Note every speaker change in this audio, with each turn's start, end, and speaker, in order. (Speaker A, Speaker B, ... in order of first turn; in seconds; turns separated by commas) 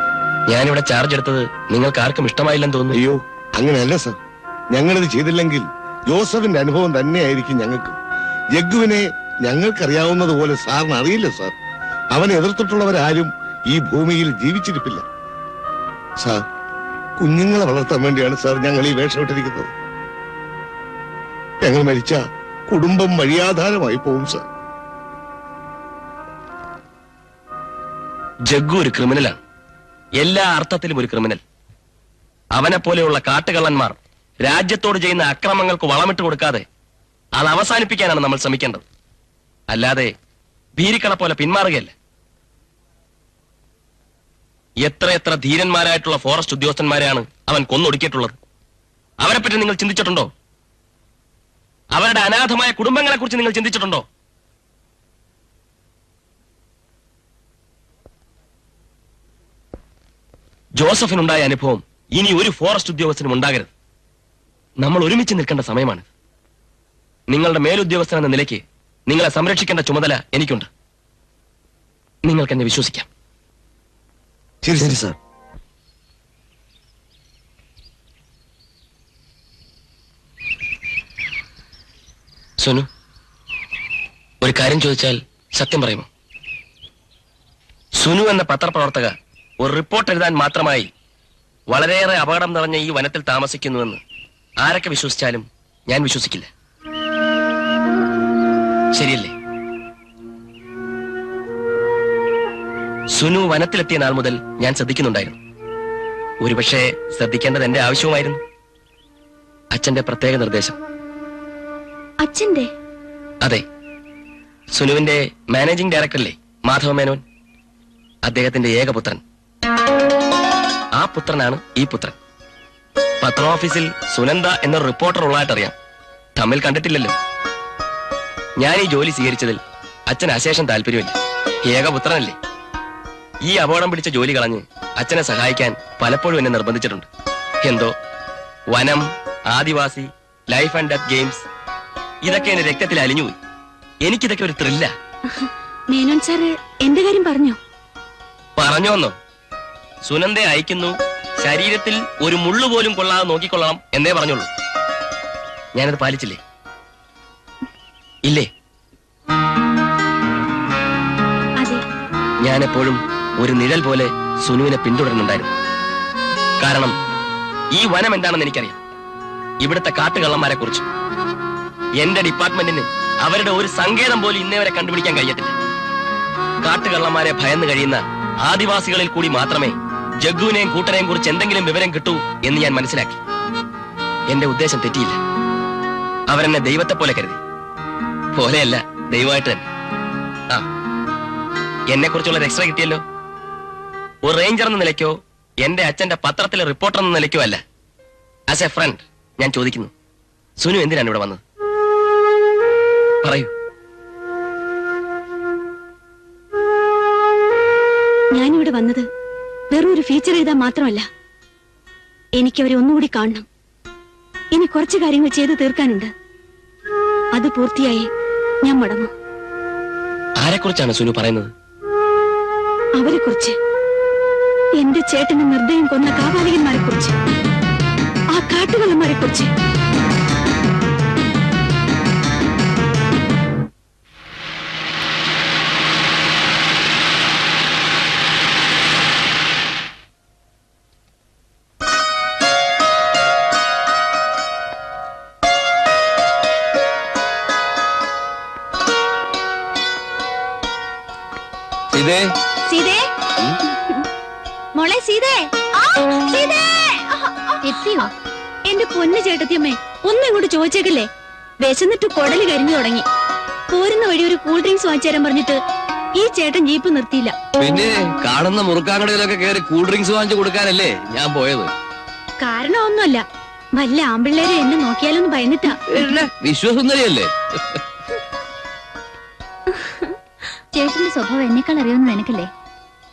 Speaker A: 0.5-3.0, Speaker B: 2.9-4.2, Speaker B: 4.7-7.9, Speaker B: 8.5-11.5, Speaker B: 12.1-15.0, Speaker B: 17.2-19.7, Speaker B: 21.6-24.4, Speaker A: 28.5-29.4, Speaker A: 30.2-31.4, Speaker A: 32.5-36.6, Speaker A: 37.4-38.8, Speaker A: 39.7-40.1, Speaker A: 40.8-41.9, Speaker A: 44.8-48.4, Speaker A: 49.2-50.3, Speaker A: 51.9-54.0, Speaker A: 60.8-63.7, Speaker A: 64.8-66.1, Speaker A: 67.3-70.7, Speaker A: 72.2-73.1, Speaker B: 74.6-75.2, Speaker A: 82.6-82.9, Speaker A: 84.4-86.1, Speaker A: 88.0-90.9, Speaker A: 91.7-94.0, Speaker A: 94.6-96.5, Speaker A: 98.9-99.3, Speaker A: 103.1-105.4, Speaker A: 106.4-108.4, Speaker A: 109.7-110.8, Speaker C: 112.2-112.7, Speaker A: 114.7-117.2, Speaker A: 118.2-119.2, Speaker A: 121.0-122.2, Speaker A: 123.2-125.7, Speaker A: 126.3-127.2, Speaker A: 128.6-132.3, Speaker A: 133.4-137.1, Speaker A: 137.6-137.9, Speaker A: 138.7-141.5, Speaker A: 142.2-143.4, Speaker A: 144.0-144.9, Speaker C: 145.3-147.6, Speaker A: 148.6-149.2, Speaker A: 150.0-154.5, Speaker A: 155.7-156.4, Speaker A: 162.4-165.5, Speaker A: 166.6-166.9, Speaker A: 167.7-168.8, Speaker A: 169.6-170.8, Speaker A: 172.0-175.5, Speaker A: 176.6-183.2, Speaker A: 184.3-185.2, Speaker A: 186.3-187.4, Speaker A: 188.3-189.7, Speaker A: 191.9-193.0, Speaker A: 194.2-197.6, Speaker A: 198.5-199.9, Speaker A: 200.6-201.4, Speaker A: 203.2-203.5, Speaker C: 208.3-209.0, Speaker C: 209.7-211.1, Speaker C: 212.4-213.4, Speaker C: 214.5-216.1, Speaker C: 217.3-218.1, Speaker C: 218.6-219.1, Speaker A: 220.4-221.5, Speaker C: 223.0-223.6, Speaker C: 224.8-227.1, Speaker C: 228.3-229.5, Speaker D: 251.9-252.3, Speaker C: 252.7-253.0, Speaker C: 254.7-258.1, Speaker E: 257.6-258.1, Speaker C: 258.7-261.1, Speaker C: 261.6-263.0, Speaker C: 263.7-265.6, Speaker C: 266.2-267.3, Speaker D: 267.6-271.7, Speaker C: 272.4-273.2, Speaker C: 273.8-276.1, Speaker D: 276.0-277.3, Speaker C: 279.7-280.1, Speaker E: 280.7-282.5